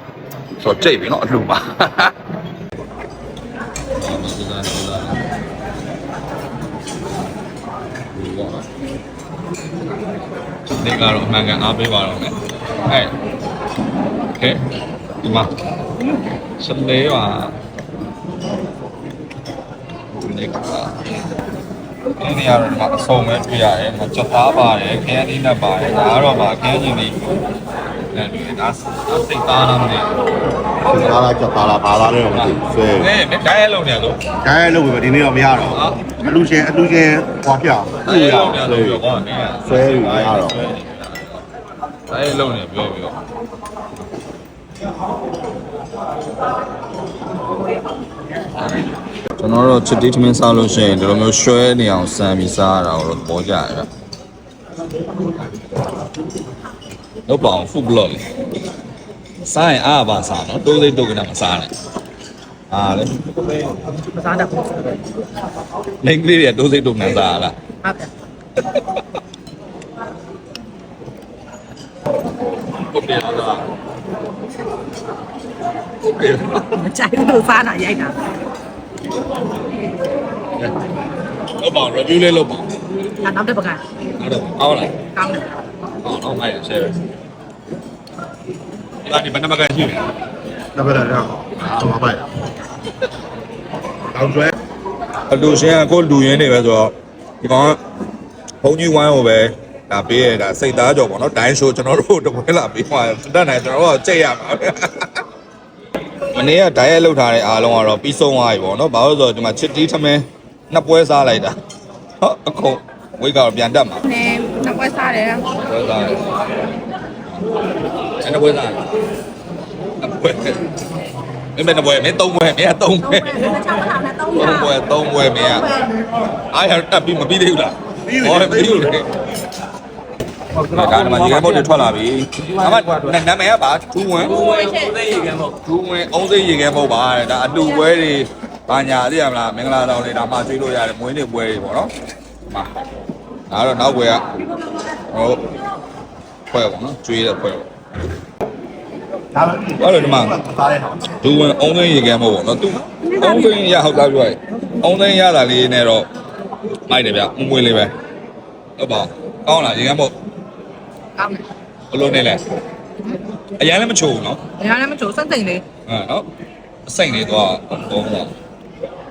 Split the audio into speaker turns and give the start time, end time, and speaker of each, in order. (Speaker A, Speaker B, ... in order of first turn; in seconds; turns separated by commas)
Speaker A: 0.6-2.1, Speaker A: 4.0-5.2, Speaker A: 8.1-8.7, Speaker A: 10.8-13.1, Speaker A: 14.3-14.6, Speaker A: 15.2-17.6, Speaker A: 20.1-21.0, Speaker A: 22.2-27.2, Speaker A: 28.1-30.1, Speaker A: 30.8-31.2, Speaker B: 30.9-33.1, Speaker A: 32.3-34.2, Speaker B: 34.4-39.0, Speaker A: 35.6-36.1, Speaker A: 38.0-41.4, Speaker B: 39.7-40.6, Speaker A: 42.1-43.2, Speaker A: 49.4-53.9, Speaker A: 57.3-58.2, Speaker A: 59.4-61.7, Speaker A: 62.7-63.7, Speaker C: 64.1-65.0, Speaker A: 66.0-67.7, Speaker C: 67.8-68.1, Speaker A: 68.6-69.0, Speaker A: 72.8-73.7, Speaker A: 76.0-76.8, Speaker C: 76.7-78.2, Speaker A: 81.4-82.7, Speaker C: 83.2-83.8, Speaker A: 84.2-85.0, Speaker C: 85.1-85.5, Speaker A: 86.0-87.0, Speaker A: 89.0-90.1, Speaker B: 90.8-92.2, Speaker A: 91.5-92.1, Speaker A: 95.3-97.8, Speaker A: 98.6-105.2, Speaker A: 106.3-111.6, Speaker A: 112.2-114.1, Speaker C: 114.0-115.5, Speaker A: 115.5-116.2, Speaker A: 118.2-118.8, Speaker A: 120.0-120.6, Speaker A: 121.5-123.5, Speaker C: 123.1-124.7, Speaker A: 124.3-125.8, Speaker A: 126.5-129.1, Speaker B: 128.1-128.9, Speaker A: 130.6-141.9, Speaker B: 130.6-131.5, Speaker A: 143.5-144.2, Speaker A: 145.1-145.5, Speaker A: 146.5-147.7, Speaker A: 149.5-150.5, Speaker A: 151.0-156.1, Speaker A: 156.9-157.9, Speaker A: 158.8-160.1, Speaker C: 161.2-161.4, Speaker A: 161.9-162.4, Speaker A: 163.6-164.4, Speaker C: 164.6-165.7, Speaker A: 165.8-166.2, Speaker A: 166.9-168.3